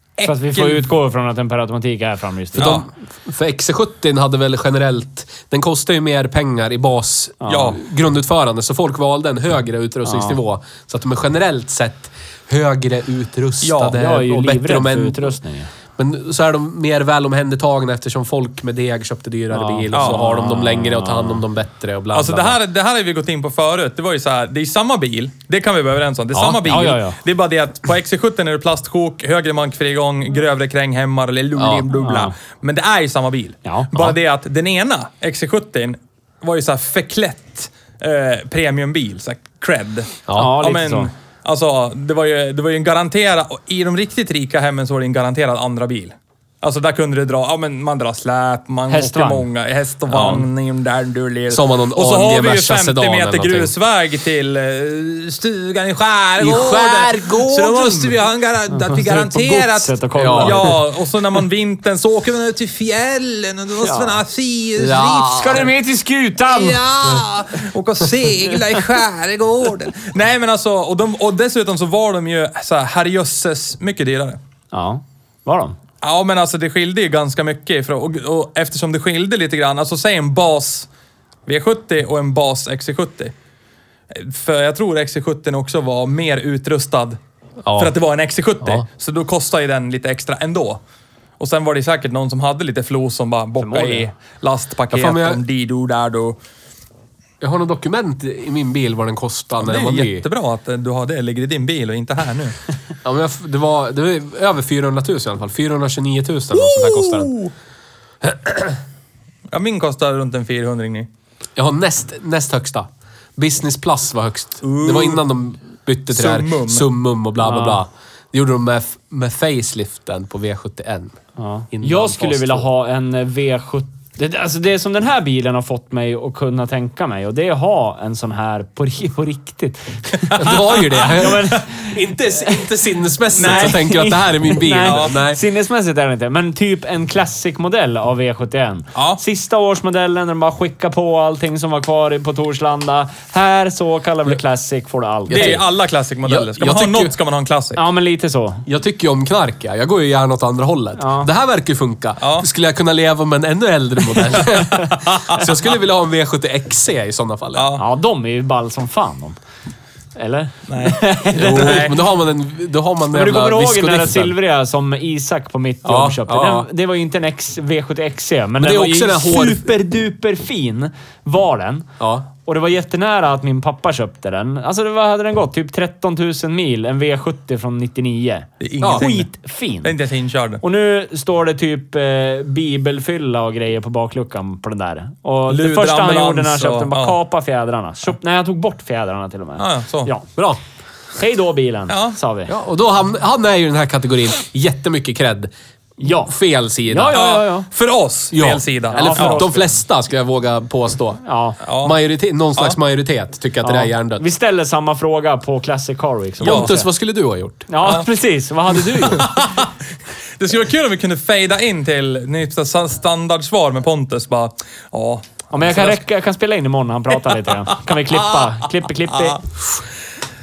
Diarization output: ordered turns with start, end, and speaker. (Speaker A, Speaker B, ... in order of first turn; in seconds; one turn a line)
Speaker A: 0.2-0.9
Speaker B: 0.2-2.8
Speaker A: 2.6-2.9
Speaker C: 2.6-15.3
Speaker B: 7.4-7.8
Speaker A: 7.5-7.8
Speaker B: 10.1-10.4
Speaker A: 13.6-14.0
Speaker B: 13.9-15.7
Speaker C: 16.0-22.6
Speaker B: 19.5-21.4
Speaker A: 19.9-20.2
Speaker A: 22.1-65.7
Speaker B: 26.4-27.2
Speaker C: 31.6-31.9
Speaker B: 31.9-32.3
Speaker B: 33.6-34.1
Speaker C: 40.3-40.6
Speaker B: 40.4-41.1
Speaker B: 48.9-49.5
Speaker B: 50.1-50.4
Speaker C: 50.1-50.4
Speaker C: 51.5-53.7
Speaker C: 56.4-58.2
Speaker B: 58.7-60.8
Speaker C: 60.2-60.7
Speaker B: 63.8-64.2
Speaker C: 64.8-65.7
Speaker B: 65.2-66.9
Speaker A: 66.5-74.4
Speaker B: 74.7-75.8
Speaker A: 76.0-80.9
Speaker A: 81.5-83.3
Speaker A: 84.1-87.2
Speaker C: 87.7-88.0
Speaker A: 87.8-90.8
Speaker A: 91.4-96.4
Speaker B: 93.6-94.1
Speaker C: 94.9-95.4
Speaker C: 97.4-100.2
Speaker A: 99.6-102.6
Speaker C: 103.0-107.3
Speaker A: 106.5-107.5
Speaker C: 108.2-108.8
Speaker A: 109.5-111.1
Speaker C: 111.6-121.2
Speaker A: 114.6-115.2
Speaker A: 116.1-116.9
Speaker B: 117.4-117.8
Speaker B: 121.4-132.6
Speaker C: 121.7-122.7
Speaker A: 130.3-131.4
Speaker C: 130.3-135.4
Speaker B: 133.3-145.6
Speaker A: 133.4-133.8
Speaker A: 134.8-135.2
Speaker A: 138.9-139.2
Speaker C: 145.3-145.6
Speaker A: 145.3-147.8
Speaker C: 146.3-147.1
Speaker B: 147.8-148.7
Speaker C: 148.7-157.7
Speaker B: 151.0-151.3
Speaker A: 152.2-152.5
Speaker A: 154.4-155.4
Speaker A: 157.6-157.8
Speaker B: 157.8-159.4
Speaker B: 160.2-161.8
Speaker A: 160.7-162.0
Speaker C: 161.3-164.3
Speaker B: 163.1-171.9
Speaker C: 165.8-166.7
Speaker C: 168.6-169.7
Speaker C: 172.0-172.3
Speaker B: 172.4-179.9
Speaker A: 178.6-179.3
Speaker A: 179.8-180.6
Speaker B: 180.6-190.3
Speaker A: 185.5-187.2
Speaker A: 189.6-190.1
Speaker B: 191.2-192.5
Speaker A: 191.9-192.2
Speaker C: 192.5-195.5
Speaker B: 196.0-196.3
Speaker C: 196.1-197.2
Speaker B: 196.9-197.7
Speaker A: 197.1-199.5
Speaker C: 198.3-201.2
Speaker B: 198.9-199.7
Speaker B: 201.2-201.6
Speaker A: 201.6-201.9
Speaker C: 201.8-204.2
Speaker B: 203.6-206.9
Speaker C: 206.4-207.7
Speaker A: 206.4-206.7
Speaker B: 207.7-209.5
Speaker A: 209.0-209.7
Speaker A: 210.4-216.0
Speaker B: 215.5-219.4
Speaker A: 217.9-218.4